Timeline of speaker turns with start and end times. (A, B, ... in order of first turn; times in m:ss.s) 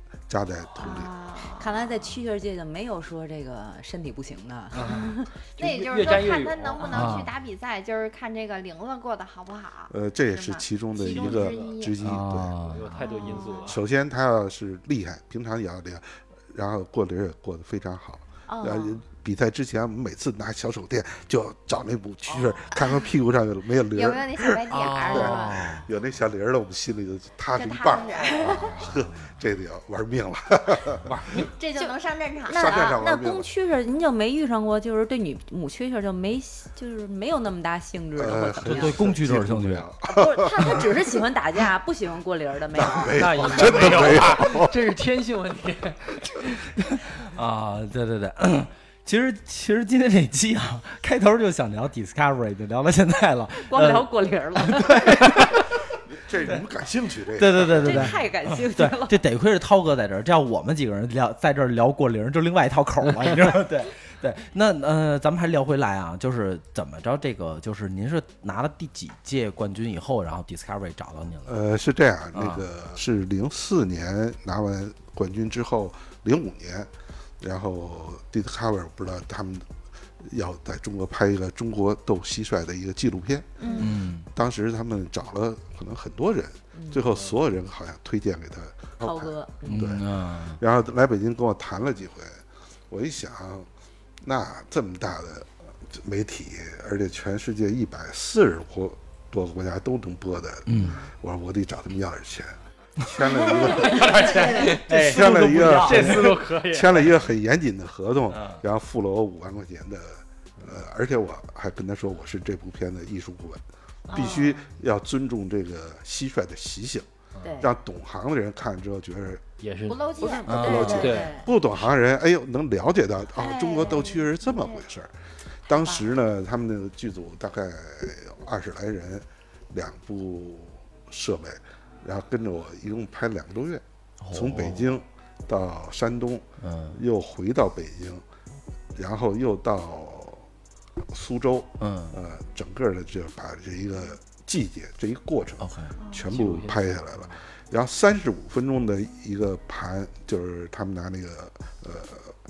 0:00.3-0:01.1 A
0:00.8-0:02.2 B
0:01.5-0:05.3 C
0:04.7-0:07.1 D
0:04.8-0:12.0 B
0:06.8-0:07.2 C
0:06.9-0:07.3 E
0:09.9-0:12.6 A
0:11.0-0:11.8 D
0:12.0-0:12.9 E
0:12.6-0:13.8 D
0:13.0-0:13.7 B
0:13.0-0:13.6 C
0:13.6-0:31.2 A
0:18.5-0:19.0 C
0:23.9-0:25.8 B
0:24.7-0:25.9 E
0:27.6-0:28.9 B
0:28.2-0:28.5 C
0:28.5-0:29.3 E
0:31.0-0:31.5 D
0:31.4-0:33.0 B
0:32.5-0:39.0 C
0:32.5-0:33.5 A
0:38.2-0:40.8 A
0:38.6-0:39.9 E
0:40.1-0:44.0 C
0:42.8-0:44.7 A
0:43.1-0:46.5 D
0:46.7-0:55.8 E
0:53.7-0:55.0 C
0:56.1-0:58.2 A
0:57.4-1:11.6 E
0:57.8-0:59.2 C
1:11.5-1:19.7 A
1:12.3-1:12.6 E
1:20.2-1:23.7 A
1:23.6-1:23.9 B
1:23.6-1:23.9 C
1:23.8-1:24.3 E
1:24.3-1:33.7 A
1:29.0-1:29.7 C
1:29.6-1:30.6 E
1:34.2-1:57.1 A
1:40.7-1:41.0 E
1:43.5-1:47.2 D
1:44.3-1:46.4 E
1:48.3-1:48.6 E
1:54.1-1:54.6 C
1:54.1-1:54.5 B
1:57.4-1:57.7 C
1:57.6-1:59.5 A
1:59.6-2:00.1 D
1:59.9-2:01.3 B
2:00.2-2:01.5 C
2:00.4-2:01.2 E
2:00.5-2:05.1 A
2:00.8-2:01.4 D
2:03.4-2:04.8 B
2:05.7-2:18.2 A
2:05.7-2:06.1 B
2:14.2-2:14.9 E
2:16.6-2:17.0 E
2:19.0-2:20.5 A
2:21.1-2:32.4 A
2:21.8-2:22.2 E
2:25.6-2:26.0 E
2:26.2-2:27.4 D